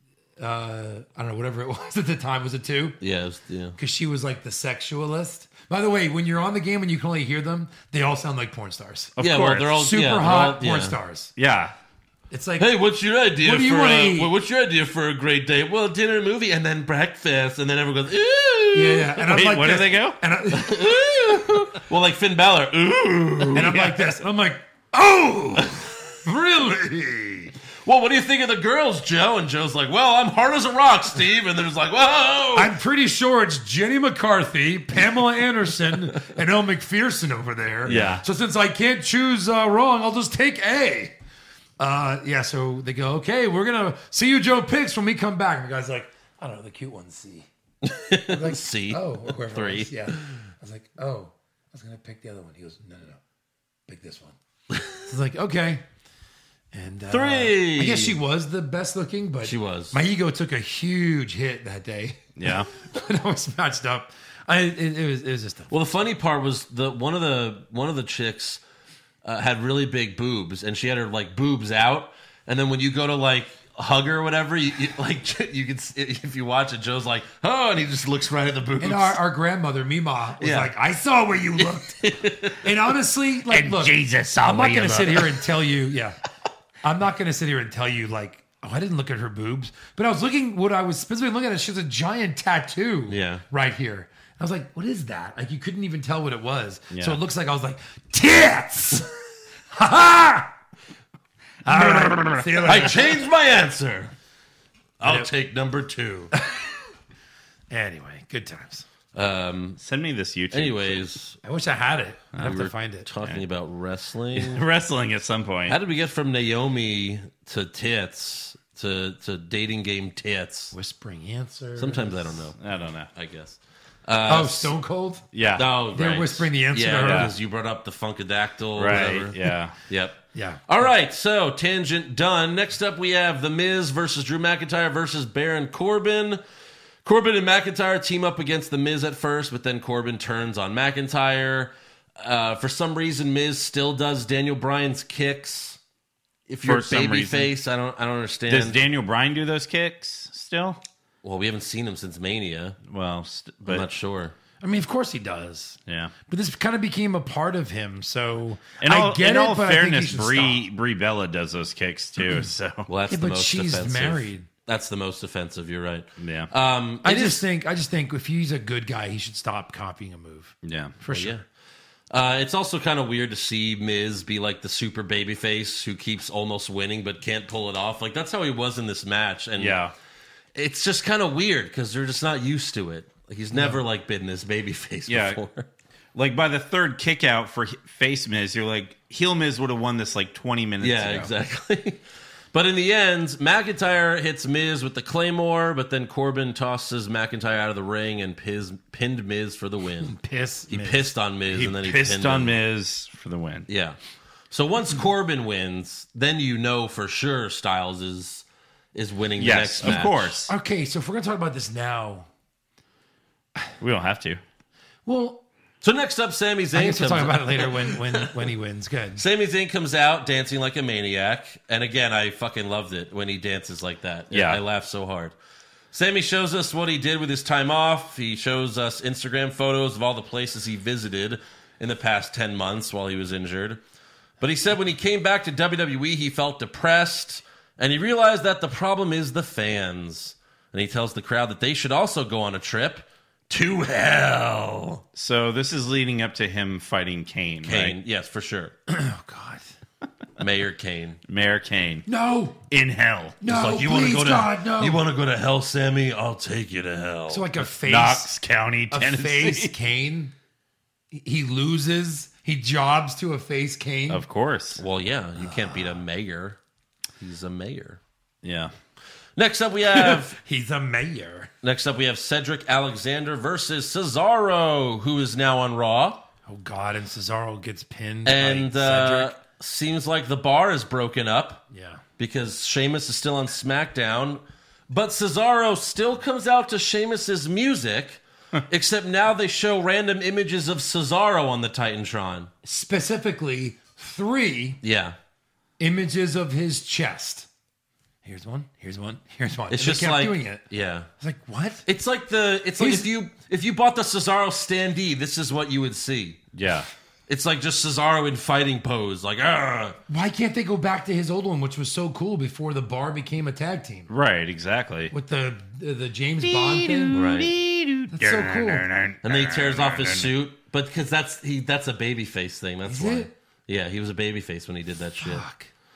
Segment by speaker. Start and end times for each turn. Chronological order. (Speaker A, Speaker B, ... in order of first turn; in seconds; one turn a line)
Speaker A: 0.4-3.0
Speaker B: 3.0-3.8
Speaker A: 3.8-9.2
Speaker C: 9.2-9.7
Speaker B: 9.2-10.9
Speaker A: 9.7-11.3
Speaker C: 11.4-11.7
Speaker A: 12.3-12.7
Speaker B: 12.6-19.1
Speaker A: 13.4-14.3
Speaker A: 18.7-21.3
Speaker C: 19.2-20.2
Speaker B: 20.6-23.9
Speaker A: 23.5-27.5
Speaker B: 27.8-32.7
Speaker A: 32.5-41.1
Speaker C: 37.8-38.2
Speaker B: 37.9-38.2
Speaker A: 41.8-47.5
Speaker B: 47.8-50.1
Speaker A: 48.1-53.2
Speaker A: 53.9-54.4
Speaker A: 55.0-55.8
Speaker A: 56.7-65.7
Speaker B: 57.1-58.2
Speaker B: 59.4-60.0
Speaker C: 62.4-62.7
Speaker B: 65.7-68.6
Speaker B: 69.2-79.2
Speaker A: 78.8-86.2
Speaker B: 80.4-80.7
Speaker B: 81.6-82.6
Speaker C: 83.5-85.3
Speaker A: 86.8-99.1
Speaker B: 93.1-93.4
Speaker C: 96.9-97.2
Speaker A: 99.7-100.5
Speaker A: 101.6-103.2
Speaker B: 102.6-104.1
Speaker B: 105.0-106.3
Speaker A: 106.3-106.8
Speaker A: 107.7-108.8
Speaker B: 109.1-109.8
Speaker C: 109.8-111.0
Speaker B: 110.5-111.4
Speaker A: 111.4-113.0
Speaker B: 112.4-114.6
Speaker C: 114.3-115.8
Speaker B: 115.7-120.7
Speaker A: 120.7-122.4
Speaker B: 121.8-122.6
Speaker C: 122.6-123.1
Speaker B: 123.1-124.7
Speaker A: 124.3-125.3
Speaker C: 125.3-125.7
Speaker B: 125.5-129.4
Speaker A: 125.9-127.3
Speaker C: 127.0-127.3
Speaker C: 128.7-129.7
Speaker B: 129.9-136.4
Speaker A: 130.3-130.7
Speaker B: 137.0-145.8
Speaker B: 146.5-148.8
Speaker C: 146.6-147.5
Speaker C: 148.5-150.8
Speaker B: 151.2-152.8
Speaker C: 152.8-153.9
Speaker B: 153.6-154.3
Speaker A: 154.6-160.6
Speaker C: 155.9-156.1
Speaker C: 158.8-162.9
Speaker B: 162.9-167.4
Speaker A: 163.1-164.5
Speaker C: 166.2-166.5
Speaker A: 167.0-171.4
Speaker C: 170.6-170.9
Speaker B: 171.1-171.4
Speaker B: 172.1-179.8
Speaker C: 179.6-179.9
Speaker B: 180.5-185.7
Speaker C: 185.1-185.4
Speaker C: 186.1-191.3
Speaker B: 190.8-192.0
Speaker B: 192.5-200.1
Speaker A: 200.0-201.1
Speaker B: 200.7-202.5
Speaker C: 201.5-203.7
Speaker B: 203.7-204.0
Speaker B: 204.5-210.3
Speaker C: 209.4-210.5
Speaker A: 209.8-212.3
Speaker C: 213.8-214.4
Speaker A: 215.1-215.4
Speaker B: 215.8-218.3
Speaker A: 216.7-219.2
Speaker B: 219.2-225.3
Speaker C: 224.3-224.6
Speaker B: 225.9-233.8
Speaker B: 234.4-245.0
Speaker C: 245.1-248.0
Speaker B: 247.6-248.7
Speaker A: 248.9-249.7
Speaker B: 250.4-251.2
Speaker C: 251.3-252.1
Speaker A: 252.1-252.6
Speaker C: 252.7-253.4
Speaker A: 253.4-255.0
Speaker B: 253.4-257.4
Speaker A: 257.3-258.3
Speaker C: 257.6-259.7
Speaker A: 258.9-260.3
Speaker A: 261.1-264.2
Speaker C: 264.1-264.8
Speaker B: 264.8-266.6
Speaker A: 265.4-266.0
Speaker B: 267.2-268.0
Speaker C: 268.4-268.7
Speaker B: 269.4-270.4
Speaker A: 269.9-271.5
Speaker B: 271.6-276.2
Speaker A: 276.5-279.3
Speaker B: 278.2-281.6
Speaker A: 281.7-282.0
Speaker B: 282.2-292.5
Speaker A: 292.6-294.8
Speaker B: 294.8-295.1
Speaker A: 295.8-297.5
Speaker A: 298.2-300.6
Speaker B: 299.7-301.1
Speaker A: 301.2-301.9
Speaker B: 301.9-306.4
Speaker A: 302.8-303.1
Speaker C: 306.5-306.9
Speaker B: 307.3-310.0
Speaker A: 310.1-314.1
Speaker C: 314.1-315.1
Speaker A: 315.1-317.2
Speaker C: 316.4-320.3
Speaker B: 317.1-317.5
Speaker A: 318.1-318.9
Speaker B: 319.2-325.4
Speaker A: 322.9-323.3
Speaker A: 325.2-325.7